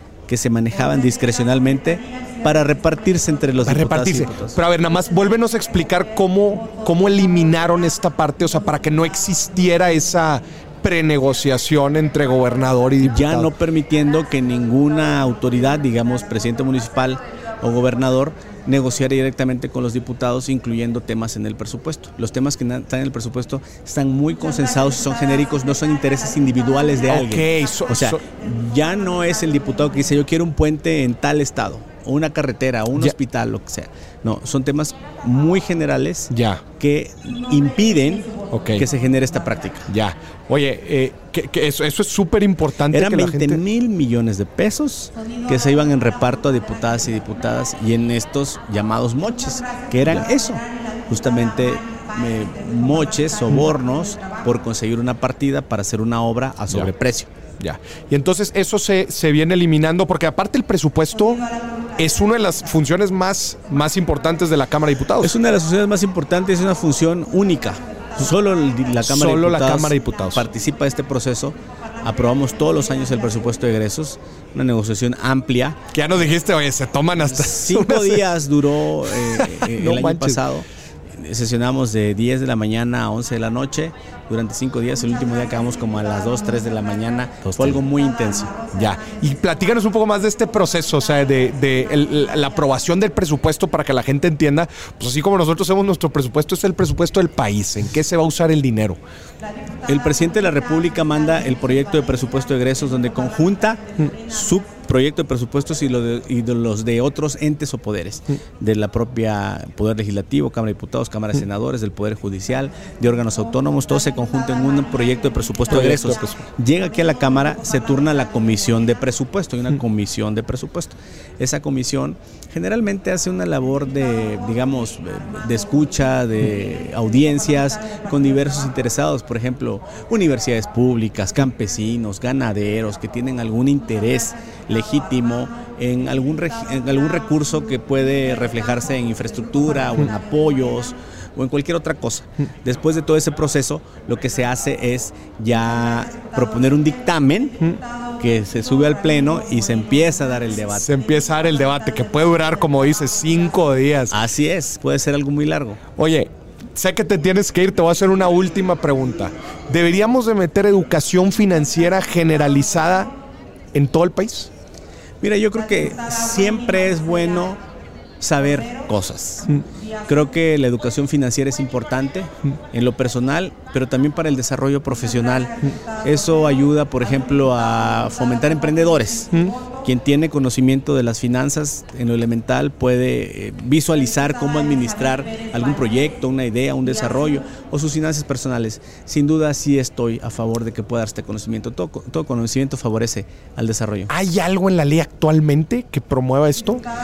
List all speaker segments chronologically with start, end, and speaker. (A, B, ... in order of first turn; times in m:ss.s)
0:00.3-0:04.6 A
0:03.6-0:13.5 B
0:13.0-0:39.9 A
0:27.1-0:28.2 B
0:36.3-0:36.6 B
0:38.5-0:38.8 B
0:39.9-0:43.6 B
0:42.9-0:57.3 A
0:57.6-1:01.4 B
1:02.0-1:05.3 B
1:05.2-1:15.8 A
1:09.0-1:10.4 B
1:15.9-1:18.2 B
1:17.2-1:28.5 A
1:19.3-1:20.4 B
1:27.5-1:27.8 B
1:28.7-1:39.0 B
1:39.8-2:27.6 A
1:55.7-1:56.4 B
2:28.2-2:30.9 A
2:30.7-2:34.2 B
2:34.1-2:35.8 A
2:36.0-2:43.1 B
2:43.7-2:44.5 B
2:45.2-2:47.6 A
2:48.2-2:49.5 A
2:50.1-2:59.3 A
2:59.8-3:14.1 A
3:14.1-3:16.8 B